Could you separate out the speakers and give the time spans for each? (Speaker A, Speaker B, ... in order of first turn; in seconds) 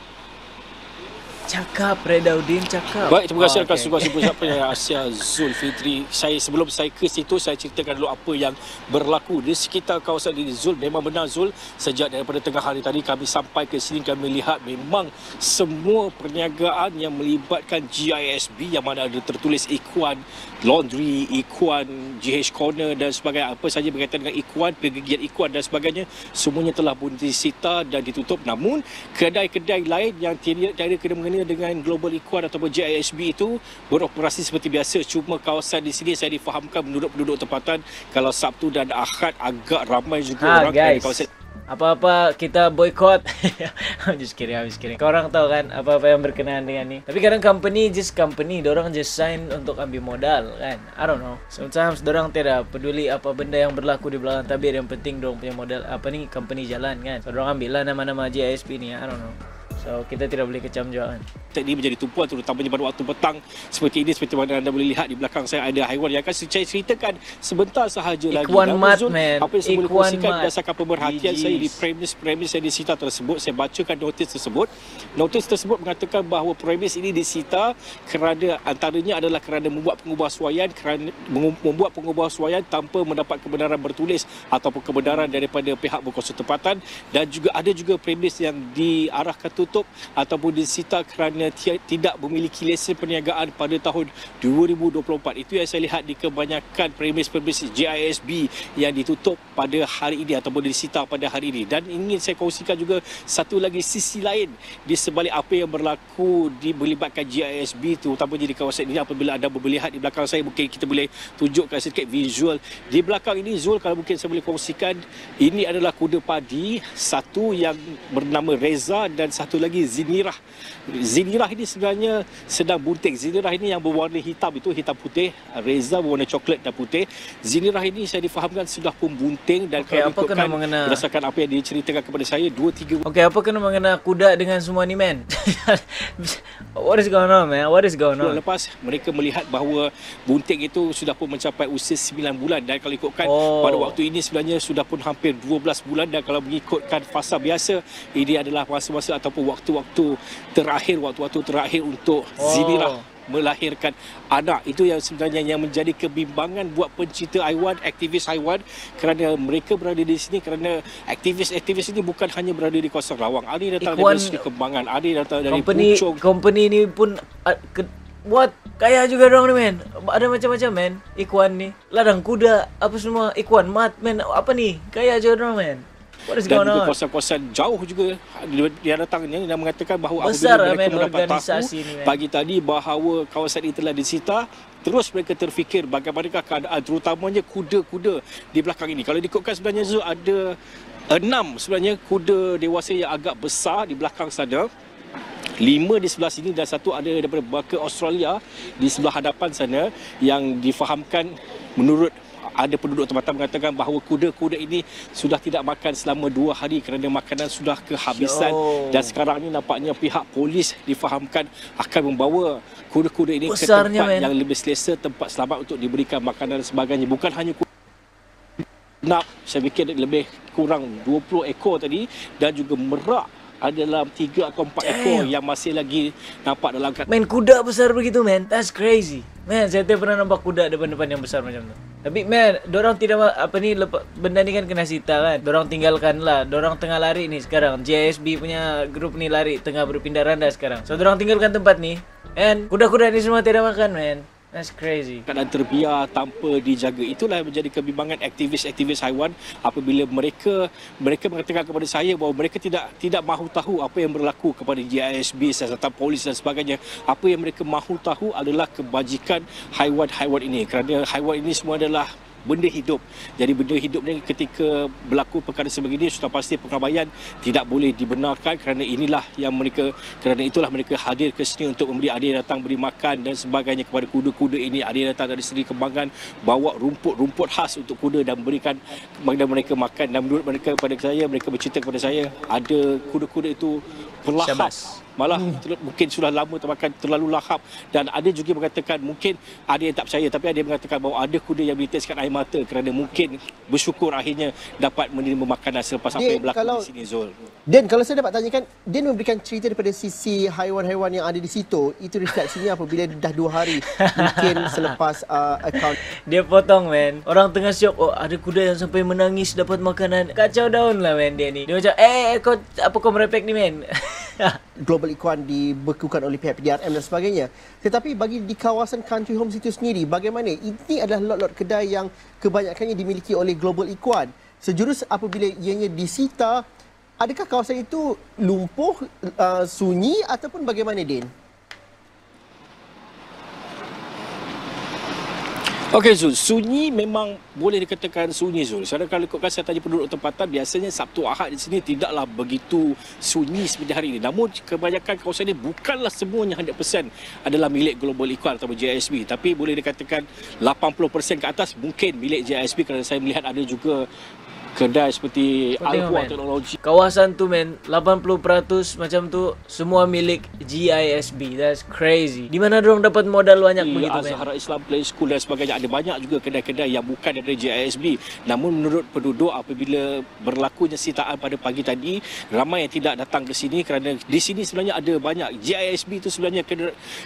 Speaker A: 1.5-4.5, 40.4-61.2, 68.3-71.8, 85.0-85.4, 129.8-131.0, 133.1-138.4, 143.2-144.0, 152.4-153.1, 163.8-164.4, 165.5-177.0, 180.2-182.2, 208.1-209.1, 213.5-214.3, 224.8-225.3, 227.1-245.2, 284.4-285.6, 303.9-304.9, 306.3-314.6, 355.8-364.5
Speaker B: 3.1-41.3, 61.5-120.3, 120.9-133.0, 138.2-166.2, 176.4-190.6, 191.1-194.7, 195.6-217.7, 219.0-227.1, 245.3-297.3, 335.9-354.1, 354.8-356.8, 363.8-376.9
Speaker C: 296.1-296.9, 297.7-306.0, 314.8-326.6, 327.2-331.3